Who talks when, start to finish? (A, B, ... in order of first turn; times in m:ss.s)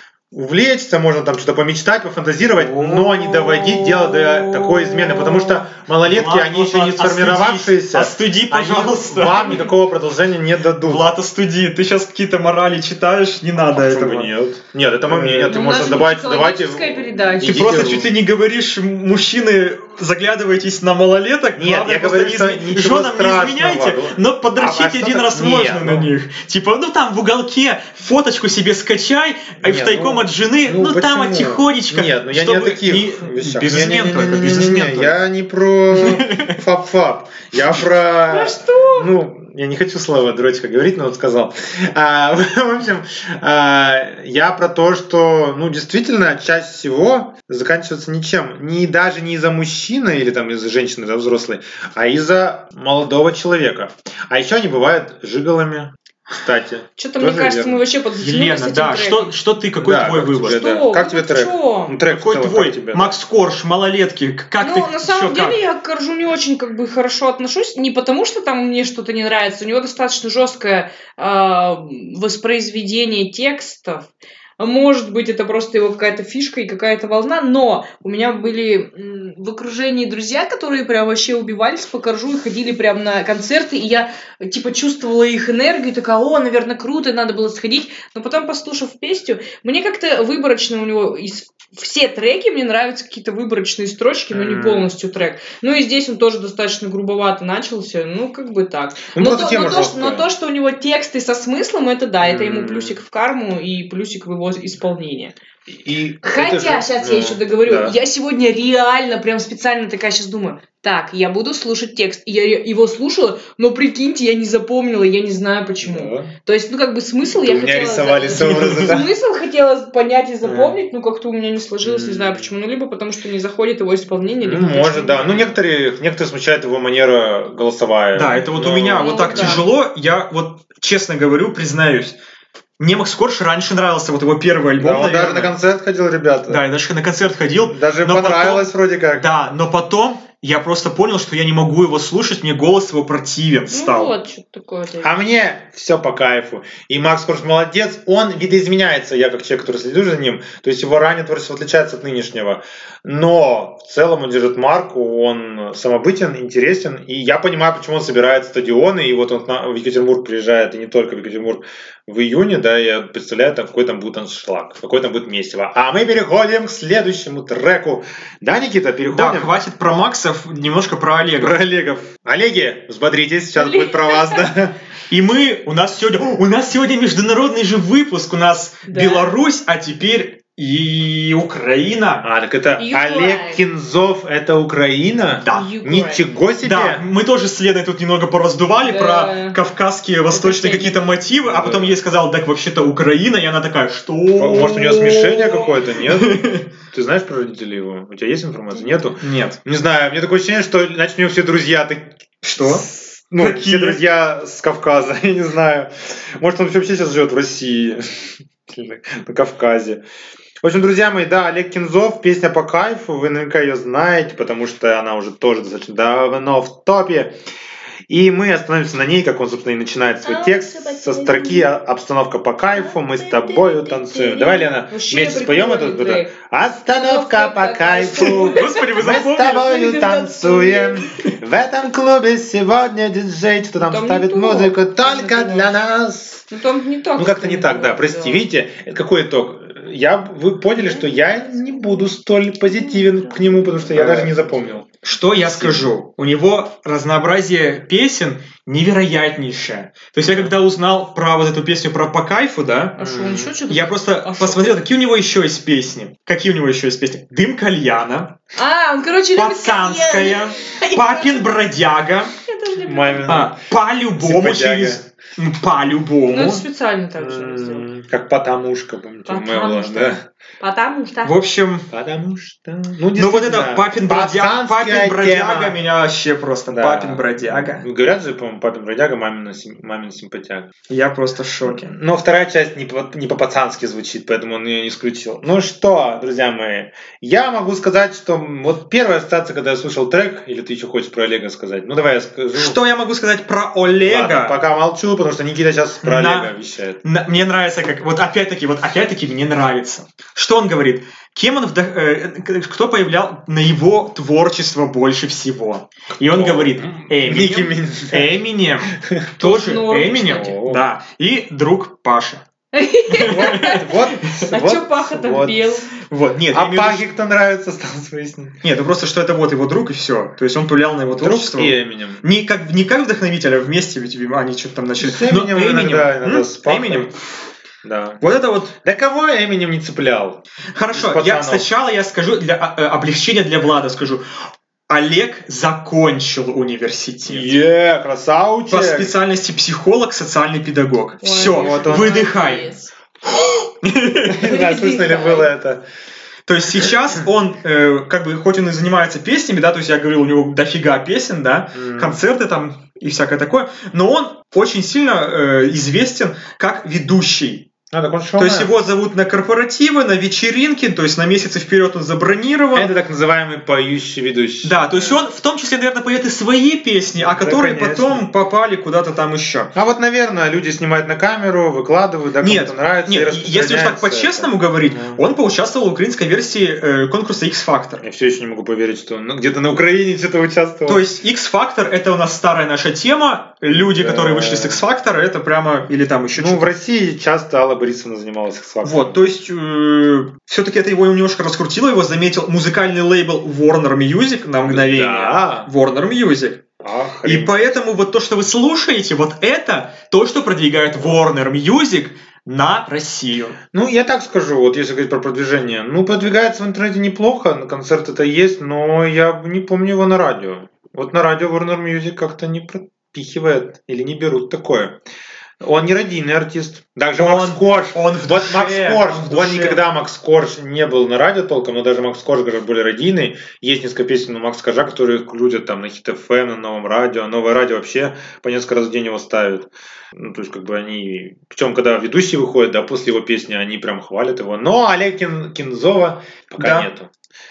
0:00.3-0:11.1 A
0:02.5-0:09.6 B
0:10.8-0:14.3 B
0:13.7-0:18.1 A
0:15.1-0:16.0 B
0:15.5-0:17.8 C
0:17.4-0:35.2 B
0:21.6-0:26.1 A
0:29.6-0:57.8 A
0:35.9-0:36.6 B
0:38.3-0:39.1 C
0:57.0-0:59.3 C
0:58.2-1:00.6 B
0:59.8-1:03.2 A
1:00.4-1:02.0 C
1:02.1-1:05.6 B
1:04.6-1:45.3 C
1:34.3-1:34.9 A
1:39.1-1:40.3 A
1:42.2-1:43.0 A
1:45.7-1:47.9 A
1:46.2-2:05.5 C
1:55.8-1:56.3 A
1:57.4-1:59.1 A
1:58.4-1:58.9 B
2:00.4-2:00.7 B
2:01.8-2:02.5 A
2:04.4-2:09.6 A
2:08.1-2:12.2 B
2:08.9-2:09.6 C
2:12.8-2:15.5 B
2:14.8-2:16.6 A
2:16.5-2:24.1 B
2:17.7-2:19.3 A
2:23.7-2:25.1 C
2:25.0-2:49.5 A
2:49.1-2:51.6 B
2:51.4-2:54.7 A
2:53.6-2:54.5 C
2:55.1-3:02.2 B
2:58.9-2:59.3 C
3:02.2-3:07.0 A
3:02.8-3:03.6 C
3:05.4-3:05.7 B
3:05.5-3:06.2 C
3:06.6-3:16.6 B
3:08.8-3:09.6 C
3:10.3-3:11.0 C
3:11.4-3:11.9 A
3:14.4-3:28.0 A
3:19.2-3:19.6 B
3:22.4-3:22.8 B
3:23.4-3:24.0 B
3:28.7-3:30.0 A
3:30.6-3:37.3 A
3:38.1-3:56.5 A
3:40.2-3:41.7 C
3:42.7-3:51.1 C
3:48.1-3:49.7 B
3:53.8-3:55.7 C
3:56.5-3:58.4 C
3:57.2-4:04.8 A
4:02.7-4:03.7 C
4:03.9-4:13.0 B
4:05.4-4:05.9 A
4:10.2-4:10.5 A
4:13.0-4:14.8 C
4:13.0-4:13.6 A
4:13.7-4:18.4 B
4:18.5-4:21.5 C
4:19.3-4:22.3 B
4:22.4-4:23.3 C
4:22.8-4:23.6 A
4:23.3-4:26.6 B
4:24.2-4:25.0 A
4:26.3-4:27.8 C
4:27.2-4:30.2 A
4:29.3-4:31.3 C
4:31.2-4:31.9 B
4:31.9-4:35.8 A
4:33.1-4:37.8 B
4:36.7-4:40.7 A
4:40.9-4:41.9 B
4:41.6-4:52.8 A
4:52.5-4:54.6 B
4:54.0-4:57.0 A
4:56.0-4:56.5 B
4:57.0-5:12.4 B
5:06.2-5:08.3 A
5:09.0-5:09.2 A
5:09.4-5:10.5 C
5:10.2-5:10.8 A
5:12.7-5:13.9 C
5:13.1-5:14.4 B
5:13.2-5:15.8 A
5:14.5-5:15.9 C
5:16.0-5:17.0 B
5:16.5-5:18.6 A
5:18.6-5:27.2 B
5:21.1-5:22.2 A
5:25.0-5:27.1 A
5:27.8-5:28.2 A
5:28.2-5:28.7 B
5:28.8-5:30.4 A
5:30.7-5:34.2 B
5:30.9-5:31.7 A
5:34.9-5:37.5 B
5:37.2-5:39.1 A
5:38.7-5:42.7 B
5:41.2-5:42.9 C
5:41.3-5:42.2 A
5:43.2-5:44.5 B
5:44.2-5:45.8 A
5:44.4-5:45.5 C
5:46.4-5:57.7 B
5:51.7-5:52.2 A
5:57.9-5:58.7 A
5:58.4-6:02.9 B
6:02.7-6:05.2 A
6:04.6-6:09.7 B
6:07.2-6:08.2 A
6:09.7-6:15.2 A
6:12.4-6:18.0 B
6:18.0-6:21.0 A
6:20.8-6:26.7 B
6:23.7-6:24.8 A
6:26.3-6:29.2 A
6:28.8-6:36.6 B
6:34.6-6:35.7 A
6:36.8-6:37.7 A
6:37.2-6:43.6 B
6:43.7-6:55.0 A
6:55.6-7:17.1 A
6:57.2-6:59.8 B
7:16.6-7:16.9 B